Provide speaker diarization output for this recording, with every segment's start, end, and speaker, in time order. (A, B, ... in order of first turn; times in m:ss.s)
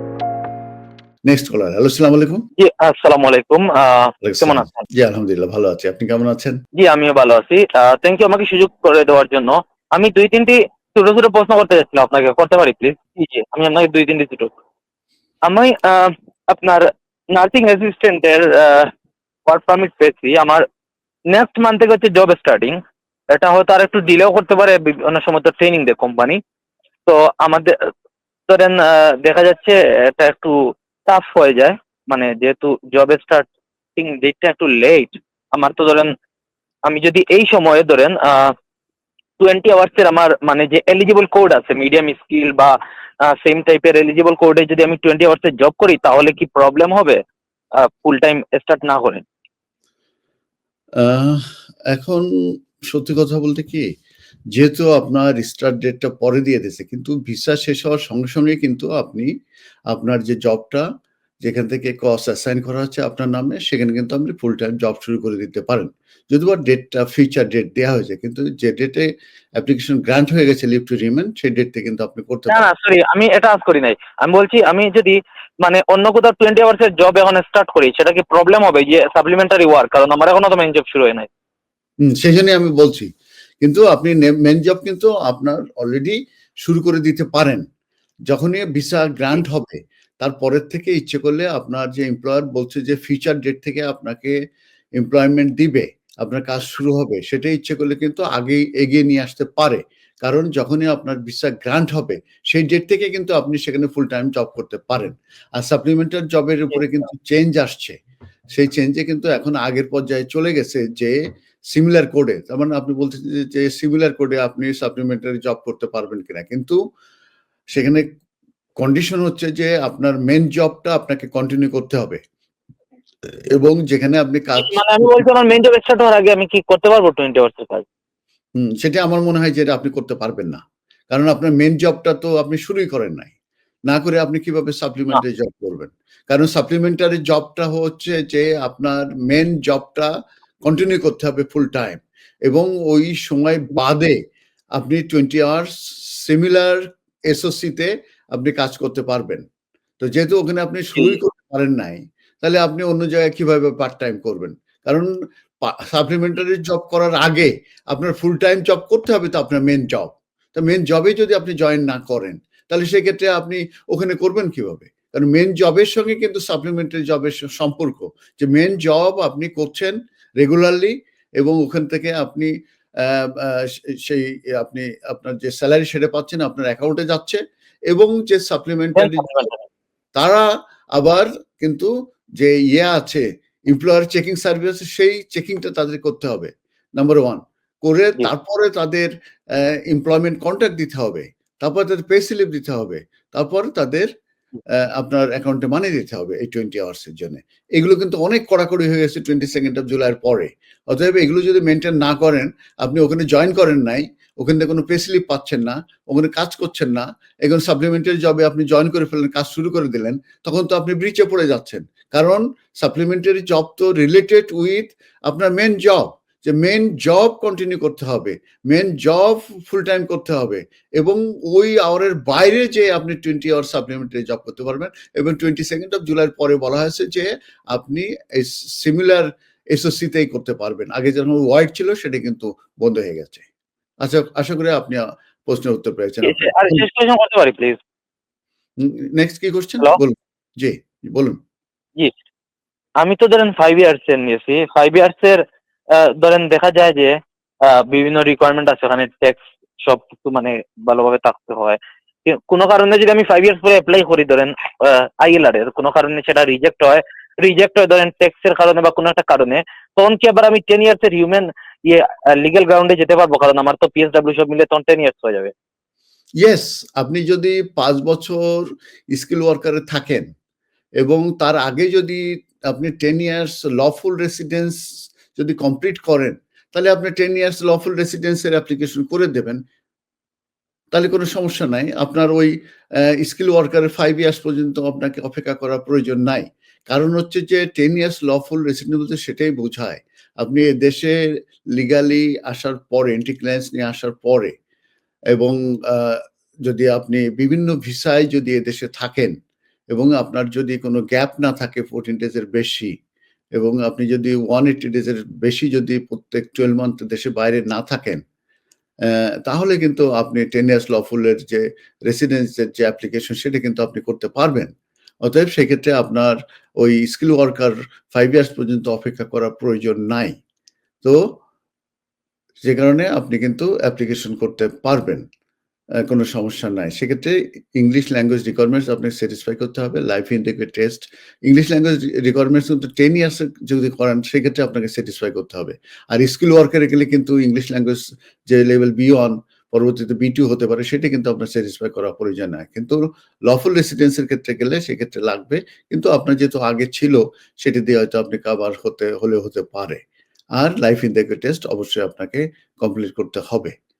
0:01.3-0:02.4 A
0:02.6-0:04.9 B
0:04.2-0:06.6 A
0:06.8-0:14.5 B
0:15.4-0:18.9 B
0:19.5-0:20.6 B
0:21.3-0:22.8 B
0:23.3-0:26.4 B
0:27.0-0:27.9 B
0:28.5-0:36.1 B
0:36.8-0:38.5 B
0:39.4-0:42.7 B
0:43.3-0:47.2 B
0:47.8-0:49.2 B
0:51.0-0:52.3 A
0:52.9-0:53.9 A
0:54.5-0:59.3 A
0:59.9-1:00.8 A
1:01.4-1:12.6 A
1:12.5-1:21.3 B
1:22.0-1:23.1 A
1:23.6-1:27.6 A
1:28.3-1:34.3 A
1:35.0-1:48.0 A
1:48.5-1:51.2 A
1:51.7-1:56.8 A
1:57.7-1:58.1 A
1:58.8-2:02.2 A
2:03.5-2:05.2 A
2:04.6-2:07.8 B
2:08.6-2:13.3 A
2:13.9-2:20.1 A
2:20.7-2:24.2 A
2:24.8-2:29.4 A
2:30.0-2:35.1 A
2:35.6-2:52.5 A
2:53.0-2:59.3 A
2:59.0-2:59.6 B
3:00.2-3:09.1 A
3:09.9-3:14.1 A
3:14.8-3:53.5 A
3:54.0-3:56.8 A
3:56.2-3:57.8 B
3:58.8-4:01.4 A
4:03.0-4:25.5 B
4:26.4-4:30.3 A
4:31.0-4:34.8 A
4:35.3-4:39.6 A
4:40.9-4:42.5 A
4:43.0-4:51.1 A
4:51.8-4:54.5 A
4:55.3-4:59.4 A
4:59.9-5:02.9 A
5:03.6-5:08.2 A
5:09.1-5:14.7 A
5:15.2-5:20.4 A
5:21.0-5:21.4 A
5:22.6-5:25.2 A
5:26.1-5:50.0 A
5:50.6-5:53.7 A